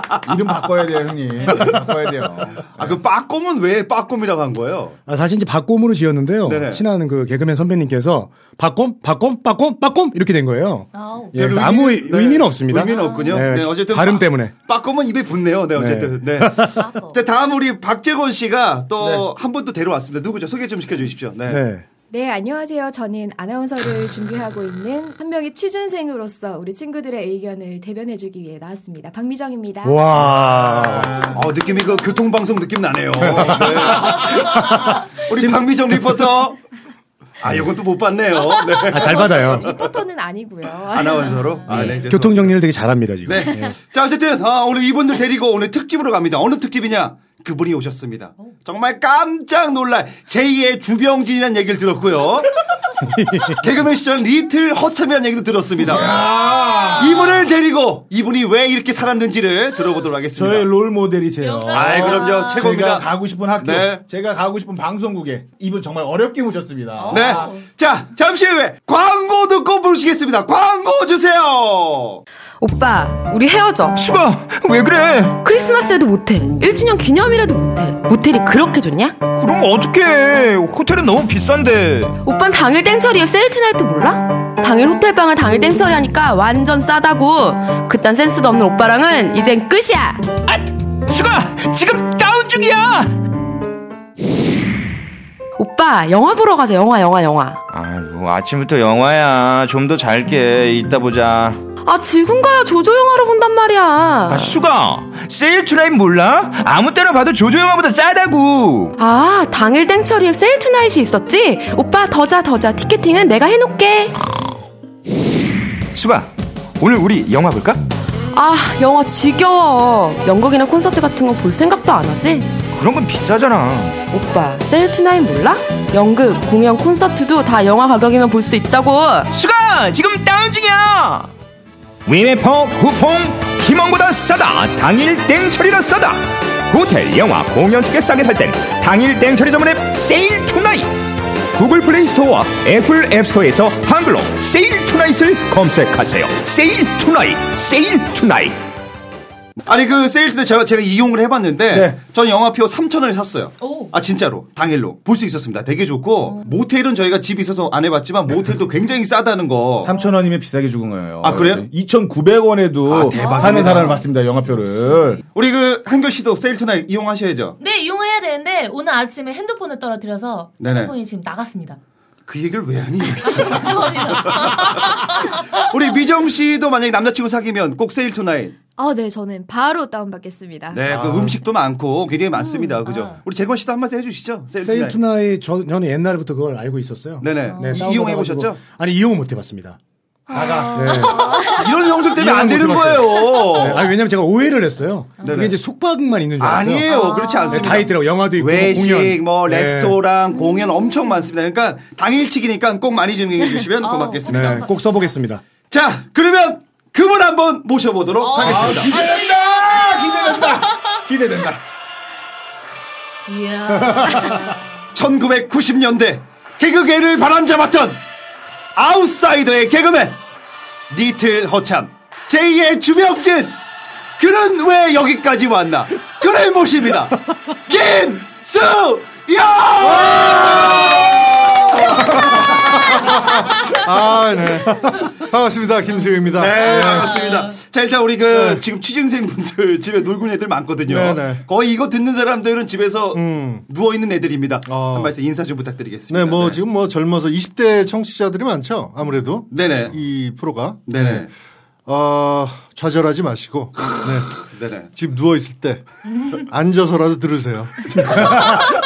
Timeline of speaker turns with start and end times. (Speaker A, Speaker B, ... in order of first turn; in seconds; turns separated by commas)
Speaker A: 0.2-2.9, Speaker B: 1.4-1.7, Speaker C: 2.8-5.0, Speaker D: 5.1-14.5, Speaker C: 6.4-6.8, Speaker B: 10.9-11.4, Speaker C: 11.3-21.6, Speaker B: 12.9-13.4, Speaker D: 15.7-16.8, Speaker B: 16.8-17.2, Speaker D: 21.5-21.9, Speaker E: 22.1-30.1, Speaker D: 29.8-31.1, Speaker A: 30.4-31.3, Speaker C: 30.9-36.6, Speaker D: 33.2-35.0, Speaker C: 37.4-39.3, Speaker D: 38.9-39.7, Speaker E: 39.0-41.6, Speaker C: 40.9-42.6, Speaker D: 41.7-43.7, Speaker C: 43.2-52.6, Speaker D: 53.1-53.6, Speaker C: 53.6-56.2, Speaker A: 55.8-57.4, Speaker C: 57.0-60.7, Speaker A: 60.4-67.5, Speaker B: 61.4-62.6, Speaker C: 61.7-64.0, Speaker B: 67.0-67.6, Speaker C: 67.1-72.2, Speaker F: 72.6-74.0, Speaker G: 74.0-75.4, Speaker F: 75.4-79.2, Speaker G: 79.3-82.2, Speaker F: 82.2-90.3, Speaker G: 90.5-93.1, Speaker F: 95.6-97.6, Speaker G: 97.7-101.6, Speaker F: 101.8-104.5, Speaker G: 104.3-109.0, Speaker F: 109.0-114.1, Speaker G: 115.9-117.8, Speaker F: 118.3-122.5, Speaker G: 122.7-124.0, Speaker F: 124.1-129.3, Speaker G: 129.3-131.3, Speaker G: 132.0-148.6, Speaker C: 149.6-159.9, Speaker B: 153.6-153.9, Speaker A: 159.8-165.2, Speaker C: 161.2-161.7, Speaker C: 162.8-164.0, Speaker B: 163.1-164.0, Speaker C: 165.3-167.6, Speaker B: 167.6-171.8, Speaker C: 170.6-170.9, Speaker C: 172.3-178.6, Speaker B: 173.2-175.4, Speaker E: 178.8-180.8, Speaker C: 180.7-185.0, Speaker A: 180.9-181.3, Speaker E: 182.6-182.8, Speaker B: 182.8-183.2, Speaker D: 184.6-189.8, Speaker C: 187.2-188.6, Speaker B: 187.4-187.8, Speaker E: 190.3-191.5, Speaker D: 190.4-191.5, Speaker B: 190.9-191.6, Speaker C: 191.4-193.9, Speaker D: 192.1-196.9, Speaker B: 195.2-195.5, Speaker C: 195.2-195.6, Speaker C: 196.4-204.6, Speaker B: 196.9-197.9, Speaker D: 197.5-199.9, Speaker B: 203.5-205.1, Speaker D: 204.3-205.4, Speaker C: 205.7-209.0, Speaker B: 208.2-209.3, Speaker A: 208.4-211.6, Speaker B: 213.3-214.6, Speaker C: 214.9-218.0, Speaker C: 218.8-220.2, Speaker C: 220.9-223.6, Speaker C: 224.2-233.3, Speaker H: 232.7-237.2, Speaker C: 236.3-246.6, Speaker B: 236.8-237.5, Speaker H: 238.3-238.6, Speaker H: 240.8-241.4, Speaker H: 243.1-243.6, Speaker H: 244.7-245.1, Speaker H: 246.1-251.3, Speaker C: 249.5-249.9, Speaker C: 250.9-251.3, Speaker H: 251.8-258.6, Speaker C: 253.9-254.9